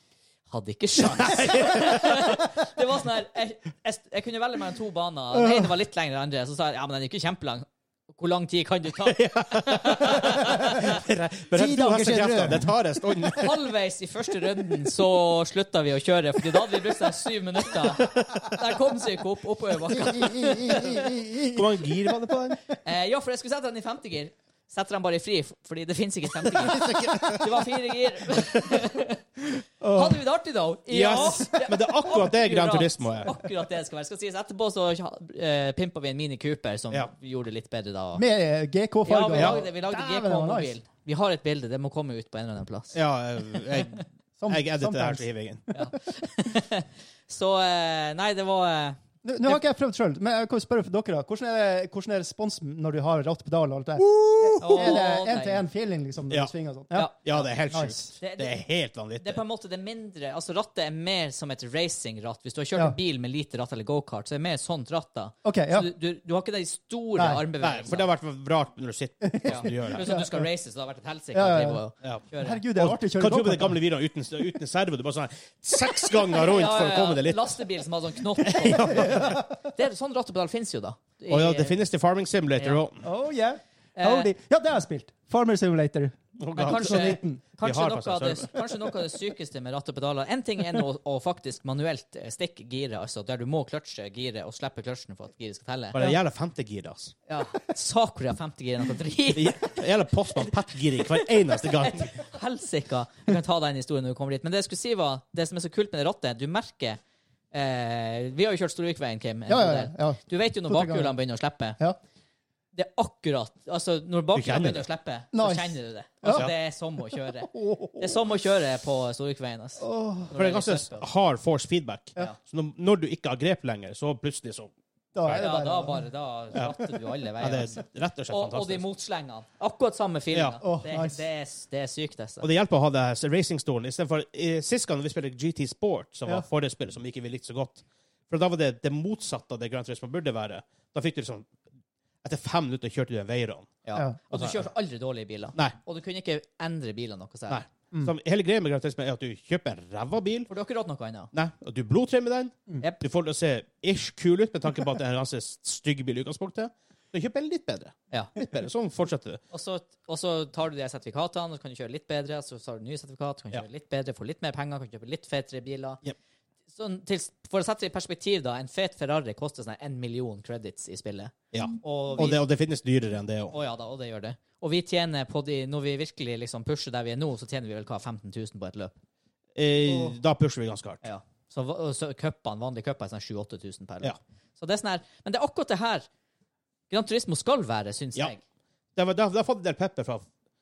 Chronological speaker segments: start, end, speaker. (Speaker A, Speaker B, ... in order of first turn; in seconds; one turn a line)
Speaker A: 0.5-11.0
Speaker B: 1.1-2.0
Speaker C: 5.4-5.7
Speaker B: 9.1-13.6
Speaker C: 10.7-12.7
Speaker A: 13.3-21.1
Speaker B: 18.0-18.6
Speaker C: 20.1-21.6
Speaker B: 21.4-22.6
Speaker A: 22.8-38.2
Speaker B: 26.7-27.4
Speaker C: 26.9-27.3
Speaker C: 29.8-30.2
Speaker B: 30.9-33.3
Speaker C: 31.1-31.6
Speaker C: 38.1-40.7
Speaker A: 39.0-43.0
Speaker B: 39.3-39.6
Speaker B: 42.9-45.6
Speaker C: 44.4-45.7
Speaker A: 45.7-49.6
Speaker C: 49.2-57.1
Speaker B: 54.5-54.9
Speaker A: 54.6-55.6
Speaker A: 56.9-57.5
Speaker B: 57.2-59.4
Speaker C: 57.7-58.1
Speaker A: 58.2-58.6
Speaker A: 59.2-68.1
Speaker C: 65.4-65.9
Speaker C: 67.2-67.4
Speaker B: 67.6-70.1
Speaker C: 69.2-70.5
Speaker A: 69.4-72.7
Speaker C: 71.3-71.8
Speaker C: 72.4-73.8
Speaker B: 72.7-77.6
Speaker A: 76.3-81.8
Speaker B: 78.4-79.4
Speaker C: 78.7-79.5
Speaker B: 81.3-83.0
Speaker C: 83.0-87.4
Speaker A: 84.0-84.3
Speaker B: 86.4-88.5
Speaker A: 86.5-96.0
Speaker B: 95.9-97.1
Speaker A: 97.3-99.8
Speaker B: 99.3-102.2
Speaker A: 101.8-107.0
Speaker A: 107.5-111.8
Speaker C: 109.5-111.1
Speaker A: 112.7-121.1
Speaker B: 114.3-114.9
Speaker C: 115.3-116.5
Speaker C: 117.4-118.2
Speaker C: 119.8-120.3
Speaker B: 120.3-124.7
Speaker C: 125.1-126.0
Speaker A: 125.2-132.5
Speaker B: 127.4-128.8
Speaker B: 130.3-130.6
Speaker C: 130.6-131.2
Speaker B: 132.4-141.5
Speaker B: 142.2-143.7
Speaker A: 143.8-147.6
Speaker B: 144.3-144.6
Speaker B: 147.5-150.5
Speaker A: 150.5-151.3
Speaker B: 151.3-159.4
Speaker A: 159.5-166.0
Speaker A: 166.7-171.3
Speaker B: 171.5-173.5
Speaker C: 171.8-172.3
Speaker A: 171.8-172.4
Speaker A: 173.5-178.9
Speaker B: 179.5-181.0
Speaker C: 179.9-180.1
Speaker A: 181.0-186.1
Speaker A: 186.9-188.4
Speaker B: 188.9-190.2